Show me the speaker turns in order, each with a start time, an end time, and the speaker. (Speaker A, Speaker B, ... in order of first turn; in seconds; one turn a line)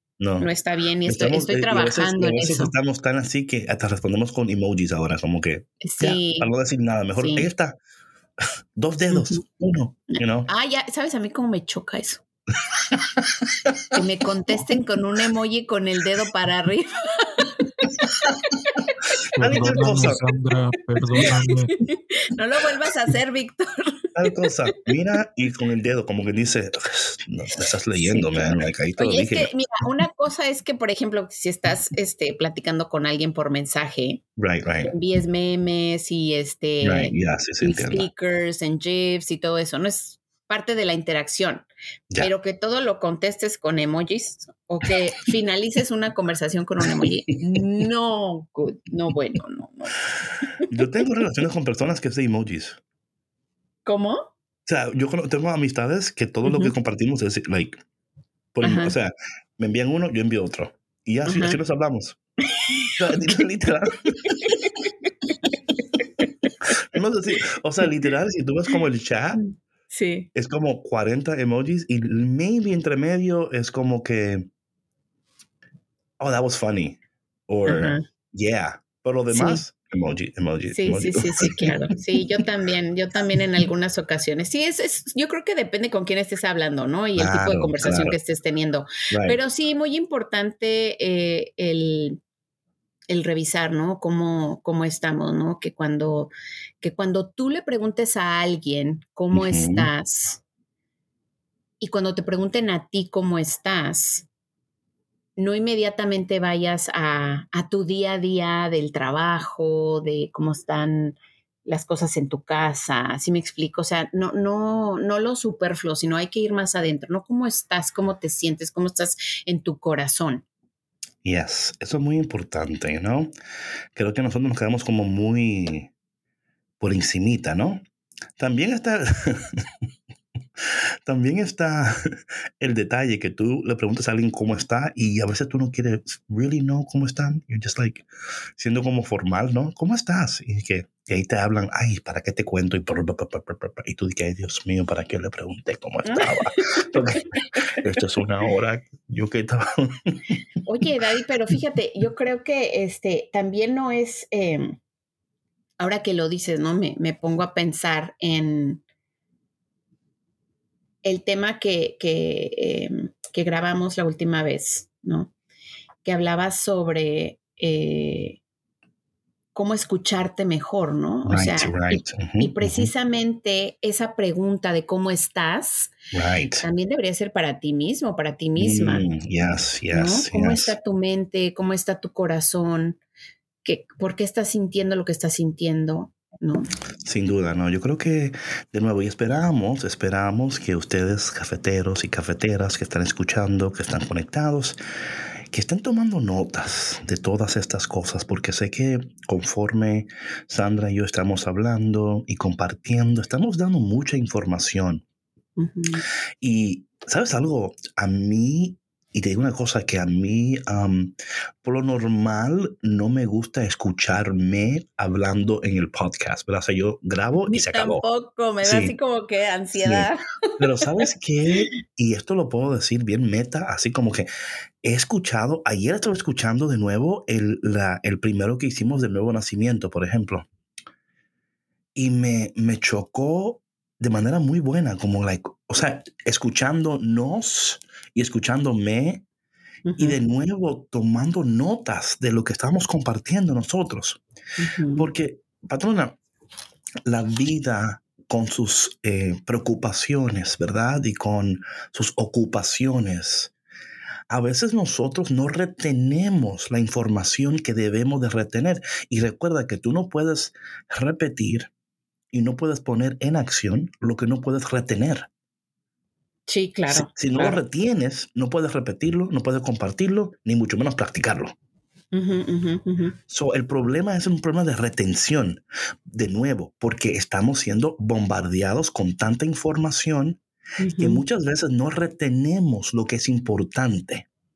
Speaker A: 0.2-0.5
Speaker B: 0.4-2.7
Speaker A: 1.1-7.8
Speaker B: 5.8-6.5
Speaker B: 7.2-7.5
Speaker A: 8.8-10.5
Speaker B: 9.1-9.4
Speaker B: 10.1-12.2
Speaker B: 13.9-18.9
Speaker C: 19.4-21.7
Speaker A: 19.4-20.3
Speaker B: 21.2-24.3
Speaker A: 24.1-29.5
Speaker B: 27.9-34.2
Speaker A: 34.4-34.9
Speaker B: 34.8-41.7
Speaker A: 36.8-38.1
Speaker B: 42.2-51.0
Speaker A: 50.7-52.8
Speaker B: 53.9-54.2
Speaker A: 54.7-57.8
Speaker B: 56.5-56.7
Speaker A: 58.5-62.2
Speaker B: 58.6-59.0
Speaker B: 61.3-61.6
Speaker B: 62.6-62.9
Speaker A: 63.0-64.5
Speaker B: 64.3-64.5
Speaker B: 66.0-66.3
Speaker A: 66.6-69.4
Speaker B: 69.4-70.3
Speaker A: 70.3-74.5
Speaker A: 76.2-81.8
Speaker B: 77.7-78.0
Speaker B: 79.3-79.6
Speaker B: 80.7-92.2
Speaker A: 87.2-88.2
Speaker A: 89.1-89.4
Speaker B: 93.1-100.4
Speaker A: 99.3-99.9
Speaker B: 101.8-104.3
Speaker B: 105.4-120.5
Speaker A: 121.2-123.3
Speaker A: 124.0-125.9
Speaker A: 126.8-127.8
Speaker A: 128.4-129.7
Speaker A: 130.6-150.2
Speaker B: 146.1-147.8
Speaker B: 150.7-154.8
Speaker B: 155.8-158.8
Speaker B: 161.0-165.3
Speaker B: 166.0-168.4
Speaker B: 169.6-175.9
Speaker A: 171.3-172.9
Speaker A: 176.1-176.7
Speaker B: 176.6-179.1
Speaker A: 178.6-180.8
Speaker B: 179.9-183.0
Speaker B: 183.6-186.7
Speaker A: 187.0-194.8
Speaker A: 195.5-205.0
Speaker B: 205.6-206.1
Speaker A: 206.4-218.0
Speaker B: 217.4-220.9
Speaker A: 218.6-218.9
Speaker A: 219.8-224.3
Speaker A: 224.8-230.5
Speaker A: 231.9-239.2
Speaker B: 239.9-240.2
Speaker A: 240.0-244.2
Speaker B: 244.6-245.1
Speaker A: 245.0-246.2
Speaker A: 247.1-253.5
Speaker A: 254.3-261.7
Speaker A: 262.3-265.3
Speaker B: 266.5-267.6
Speaker A: 266.9-271.6
Speaker B: 272.1-273.2
Speaker A: 273.3-280.4
Speaker B: 280.8-281.2
Speaker A: 281.0-284.3